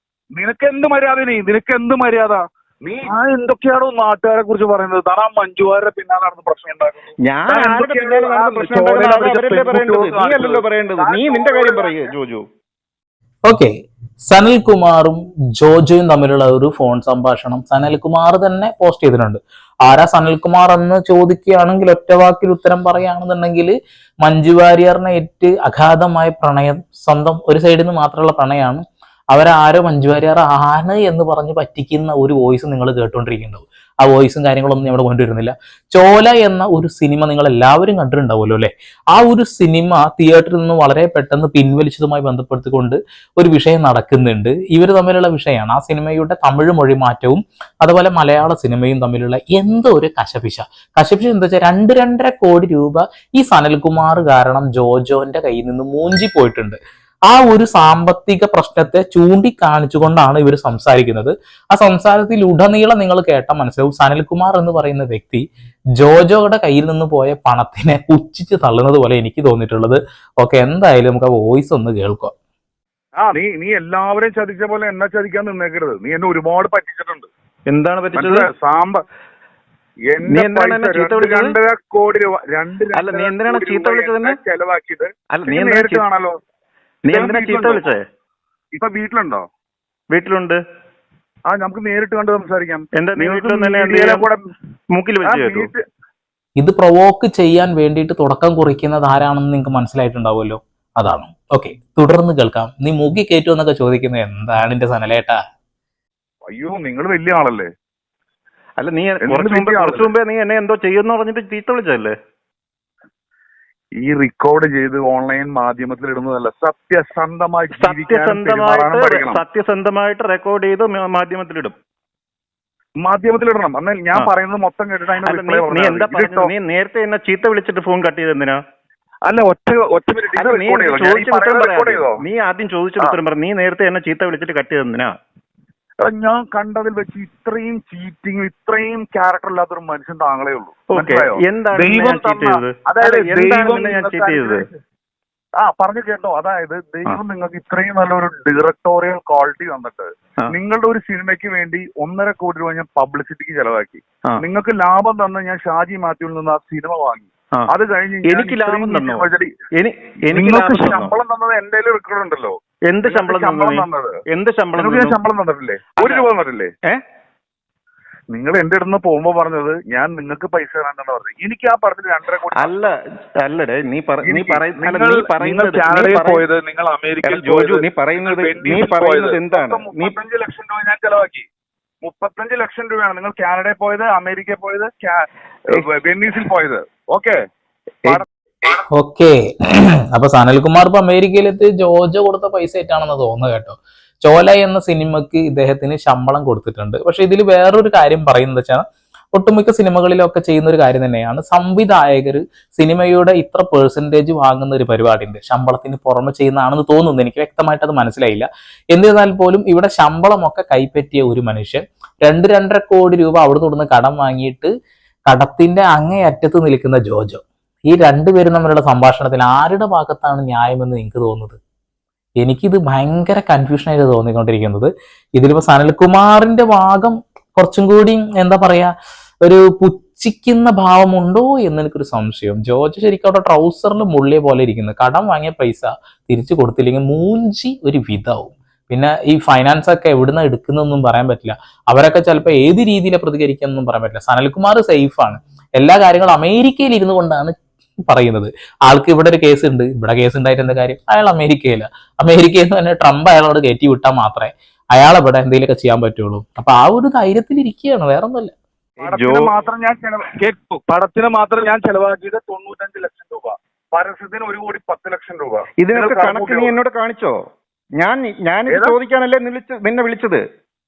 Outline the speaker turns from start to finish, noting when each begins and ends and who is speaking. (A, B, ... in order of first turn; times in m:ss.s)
0:00.4-0:12.1 A
0:07.2-0:12.4 B
0:13.4-0:13.7 C
0:14.2-0:23.7 C
0:24.2-0:56.8 C
0:57.3-1:05.4 C
1:06.0-1:12.3 C
1:13.2-1:17.3 A
1:17.7-1:18.5 B
1:18.2-1:19.0 A
1:20.1-1:26.4 A
1:20.2-1:21.5 B
1:22.9-1:24.4 B
1:25.3-1:26.0 B
1:27.0-1:28.0 B
1:27.1-1:27.9 A
1:28.7-1:29.4 A
1:30.1-1:30.6 B
1:31.5-1:34.4 A
1:33.0-1:34.3 B
1:34.9-1:35.7 B
1:35.2-1:35.8 A
1:36.6-1:45.4 C
1:46.5-1:47.7 A
1:48.8-1:52.1 B
1:49.2-1:50.1 A
1:54.0-1:59.4 A
1:57.7-2:01.8 B
2:03.0-2:06.5 A
2:05.2-2:08.6 B
2:09.2-2:12.2 A
2:10.3-2:15.1 B
2:16.0-2:24.8 A
2:20.9-2:24.6 B
2:25.6-2:39.5 A
2:38.3-2:41.1 B
2:40.3-2:42.6 A
2:42.9-2:45.2 B
2:43.1-2:44.2 A
2:44.8-2:46.7 A
2:46.0-2:46.3 B
2:48.3-2:52.8 A
2:52.6-2:52.9 B
2:53.4-2:56.4 B
2:54.2-3:01.4 A
2:57.2-3:00.1 B
3:02.0-3:07.4 A
3:08.9-3:34.7 C
3:35.3-3:41.6 C
3:42.4-3:48.9 C
3:49.4-4:07.5 C
4:08.1-4:18.5 C
4:19.0-4:26.7 A
4:19.0-4:19.5 B
4:25.8-4:27.3 B
4:28.0-4:30.4 B
4:28.7-4:29.0 A